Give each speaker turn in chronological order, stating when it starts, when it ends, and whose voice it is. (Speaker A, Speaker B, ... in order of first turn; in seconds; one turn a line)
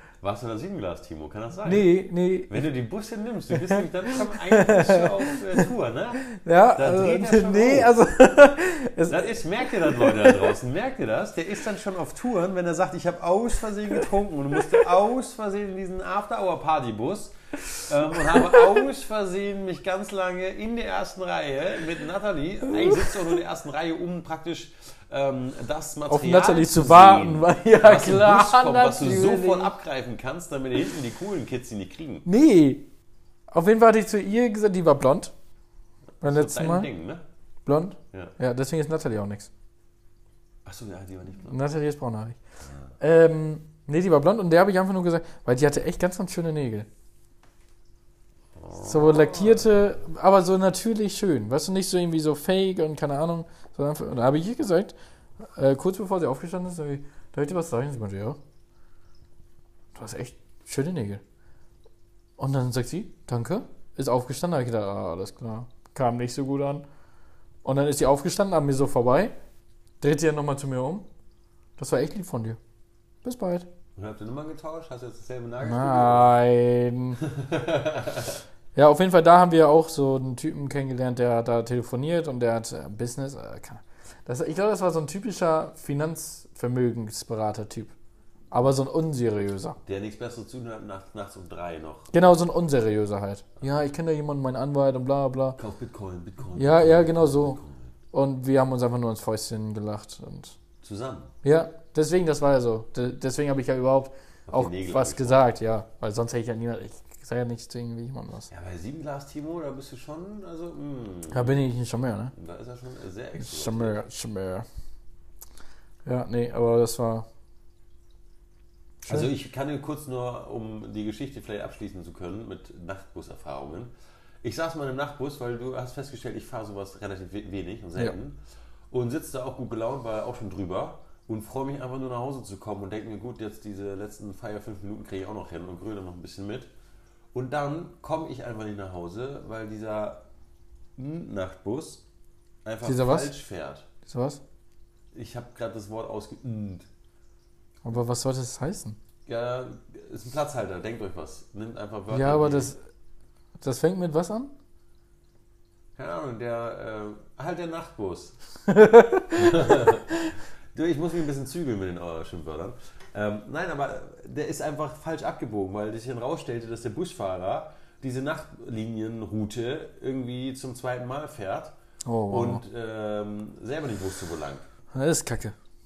Speaker A: 0.2-1.9
Speaker B: 1.6-2.6
Speaker A: 2.5-7.9
Speaker B: 3.5-5.7
Speaker B: 6.2-10.5
Speaker A: 9.1-32.2
Speaker B: 18.3-18.6
Speaker B: 22.7-23.1
Speaker B: 26.1-29.7
Speaker B: 32.2-32.8
Speaker B: 33.5-35.3
Speaker A: 36.2-37.2
Speaker B: 36.2-36.9
Speaker B: 37.6-39.5
Speaker A: 40.6-41.6
Speaker B: 41.5-42.4
Speaker A: 42.6-42.9
Speaker B: 43.0-46.9
Speaker A: 48.5-49.8
Speaker B: 48.8-54.9
Speaker B: 55.5-58.4
Speaker B: 59.9-61.2
Speaker B: 62.4-66.8
Speaker B: 67.6-69.3
Speaker B: 70.0-71.0
Speaker B: 71.8-72.6
Speaker B: 73.2-73.7
Speaker A: 74.0-76.3
Speaker B: 75.6-77.2
Speaker A: 77.2-78.4
Speaker B: 78.7-87.9
Speaker B: 88.5-89.8
Speaker A: 89.8-92.1
Speaker B: 92.1-95.6
Speaker A: 95.6-98.0
Speaker B: 96.5-97.6
Speaker B: 98.1-100.5
Speaker A: 100.8-101.3
Speaker B: 101.4-108.5
Speaker A: 104.5-105.4
Speaker A: 108.5-111.6
Speaker B: 111.3-112.3
Speaker A: 112.3-114.0
Speaker B: 113.4-114.7
Speaker B: 116.0-117.2
Speaker B: 119.0-119.3
Speaker A: 119.1-123.9
Speaker A: 124.4-128.4
Speaker A: 128.9-136.7
Speaker A: 137.3-140.2
Speaker A: 140.9-142.0
Speaker A: 142.6-143.9
Speaker B: 142.8-143.3
Speaker B: 144.1-144.4
Speaker A: 145.1-146.9
Speaker B: 147.8-149.0
Speaker A: 149.2-152.7
Speaker B: 152.1-152.8
Speaker B: 153.6-154.5
Speaker A: 155.9-158.3
Speaker B: 158.7-160.3
Speaker A: 159.4-160.1
Speaker A: 160.7-171.7
Speaker B: 172.1-172.6
Speaker A: 172.3-174.7
Speaker B: 174.9-175.5